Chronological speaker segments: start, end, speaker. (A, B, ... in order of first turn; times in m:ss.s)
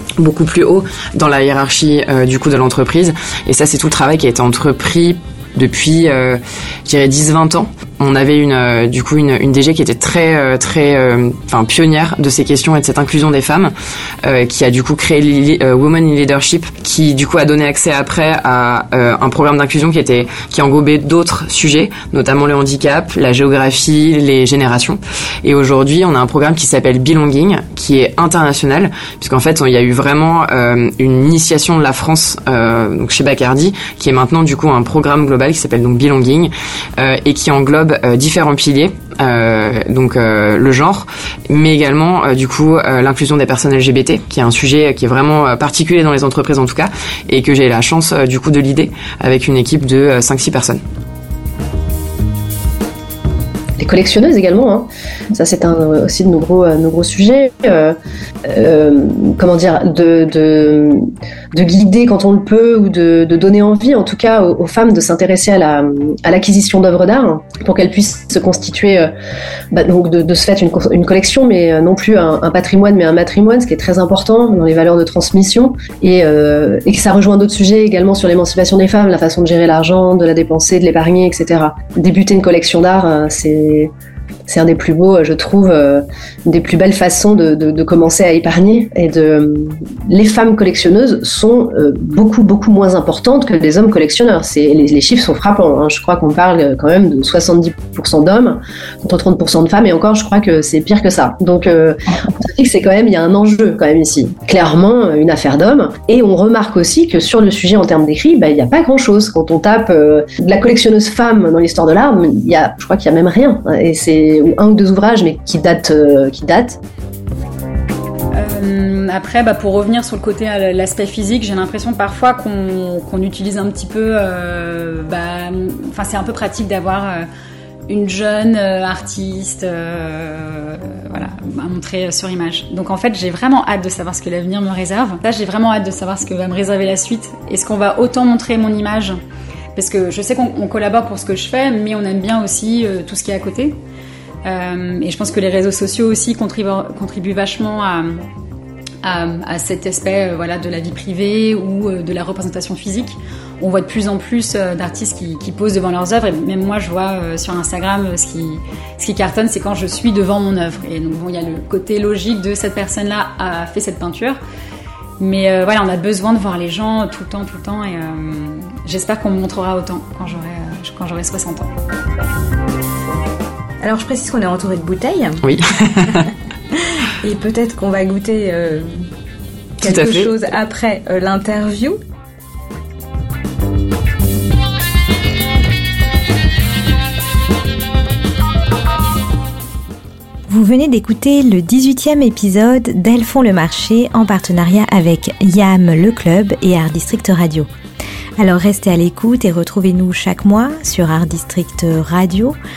0:00.2-0:50.8 A
0:53.8-1:09.1 B
1:09.7-1:23.9 B
1:24.5-1:56.8 B
1:58.3-2:07.3 C
2:07.9-2:19.2 C
2:19.8-2:23.8 C
2:24.4-2:28.3 C
2:29.0-2:44.4 C
2:45.2-2:51.7 C
2:53.8-2:55.5 D
2:55.4-2:56.3 A
2:57.2-2:59.0 D
2:59.8-3:00.4 A
2:59.8-3:02.0 D
3:10.5-3:17.7 E
3:18.4-3:22.6 E